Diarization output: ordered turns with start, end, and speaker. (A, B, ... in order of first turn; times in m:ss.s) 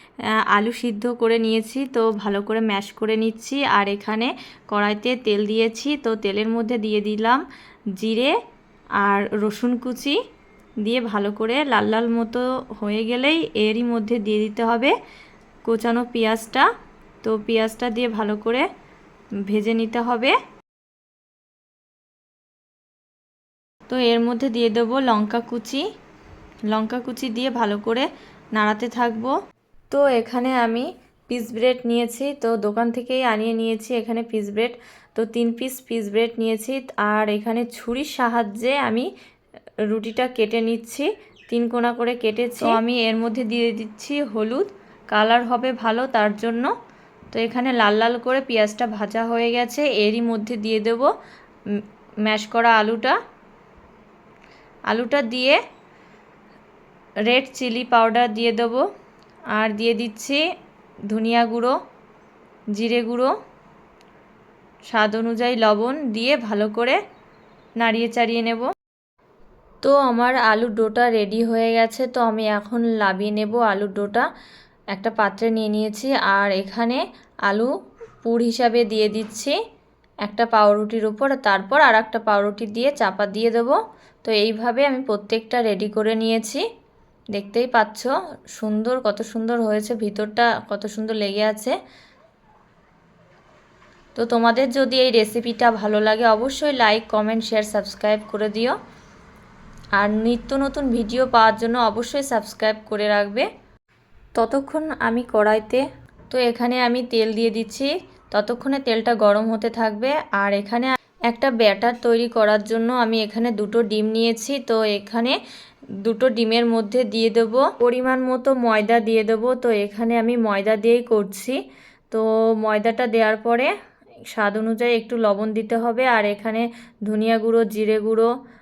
0:00.5-0:07.4 A
0:08.0-0:08.4 A
0:09.0-0:10.2 A
0:10.8-0:14.9 A
0:15.6-0:16.7 A
0:17.2-0:18.7 A
0:19.5-0:20.4 A
0:23.9-0:25.8 A
0:26.7-0:29.3 A
0:29.9-0:39.1 A
0:39.9-0:46.7 A
0:47.3-0:51.1 A
0:52.2-0:53.2 A
0:54.9-0:55.6 A
0:57.3-0:58.8 A
0:59.5-1:00.4 A
1:01.1-1:01.8 A
1:02.8-1:03.3 A
1:04.9-1:07.0 A
1:07.8-1:08.7 A
1:09.8-1:14.3 A
1:14.9-1:17.7 A
1:18.2-1:19.6 A
1:20.2-1:26.6 A
1:27.3-1:31.8 A
1:34.2-1:38.8 A
1:40.0-1:43.5 A
1:44.4-1:55.4 A
1:56.0-2:01.6 A
2:02.1-2:03.7 A
2:04.3-2:08.3 A